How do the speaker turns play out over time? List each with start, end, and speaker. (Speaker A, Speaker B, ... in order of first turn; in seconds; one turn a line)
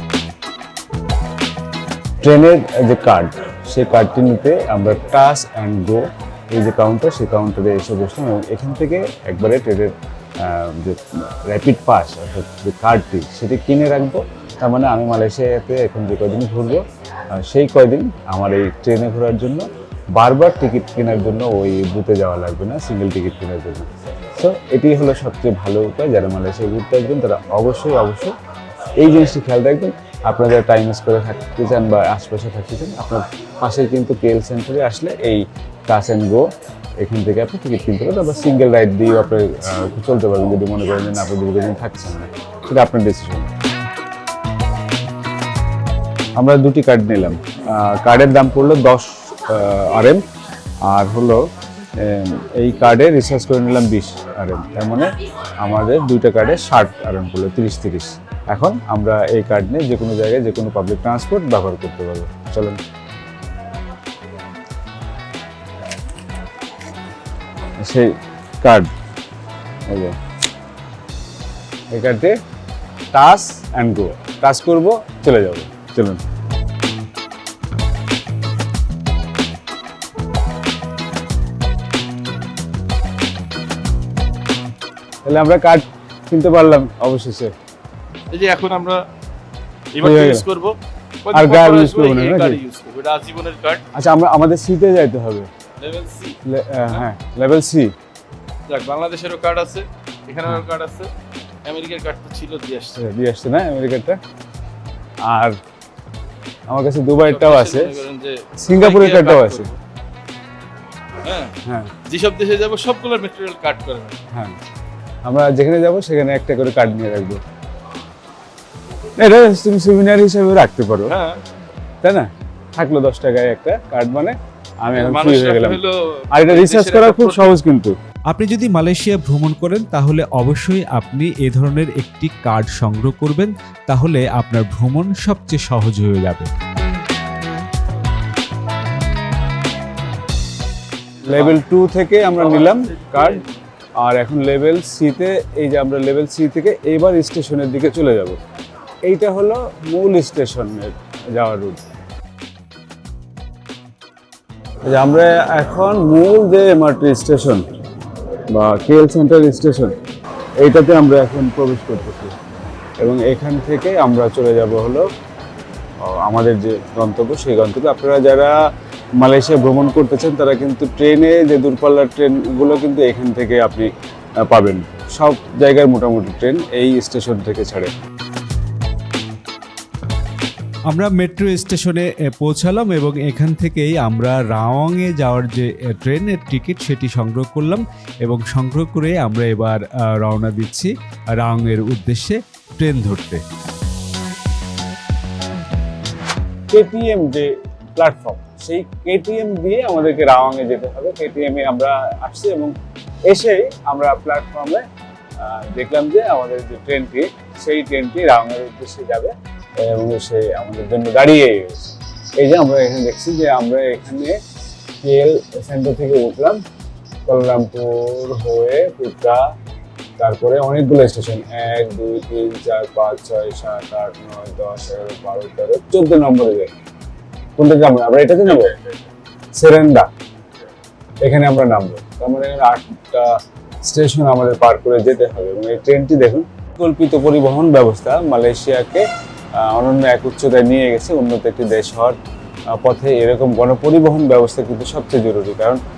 Speaker A: 2.2-28.3
Speaker A: 29.0-36.5
Speaker A: 37.0-43.5
Speaker A: 46.4-50.2
Speaker A: 50.8-51.4
Speaker A: 52.0-55.1
Speaker A: 55.6-62.8
Speaker A: 67.8-68.9
Speaker A: 69.9-70.2
Speaker A: 71.9-72.4
Speaker A: 73.1-76.2
Speaker A: 85.2-87.5
Speaker B: 88.3-89.0
Speaker B: 89.9-93.8
Speaker A: 90.0-90.4
Speaker A: 91.3-92.6
Speaker A: 93.9-95.5
Speaker B: 95.8-96.4
Speaker A: 96.5-97.9
Speaker B: 98.7-101.1
Speaker B: 101.6-103.0
Speaker A: 102.9-104.2
Speaker A: 105.2-105.6
Speaker A: 106.7-108.0
Speaker B: 107.2-109.8
Speaker A: 108.6-109.7
Speaker B: 111.2-111.5
Speaker A: 111.7-111.9
Speaker B: 112.0-114.2
Speaker A: 115.2-117.4
Speaker A: 119.2-121.1
Speaker B: 121.1-121.4
Speaker A: 122.0-125.8
Speaker B: 124.9-127.5
Speaker A: 126.3-128.0
Speaker C: 128.3-136.5
Speaker A: 141.3-143.4
Speaker B: 141.3-141.6
Speaker B: 142.3-143.5
Speaker A: 144.0-148.4
Speaker A: 149.0-151.8
Speaker A: 154.8-157.7
Speaker A: 158.5-159.9
Speaker A: 160.6-162.4
Speaker A: 163.0-165.1
Speaker A: 166.0-168.6
Speaker A: 169.2-173.9
Speaker A: 174.4-177.9
Speaker C: 180.9-193.4
Speaker A: 196.7-202.7
Speaker A: 203.2-204.8
Speaker A: 205.4-214.4
Speaker A: 215.0-216.6
Speaker A: 217.3-219.4
Speaker A: 220.2-226.7
Speaker A: 227.6-228.8
Speaker A: 229.5-230.1
Speaker A: 231.2-239.0
Speaker A: 239.6-242.2
Speaker A: 242.8-245.8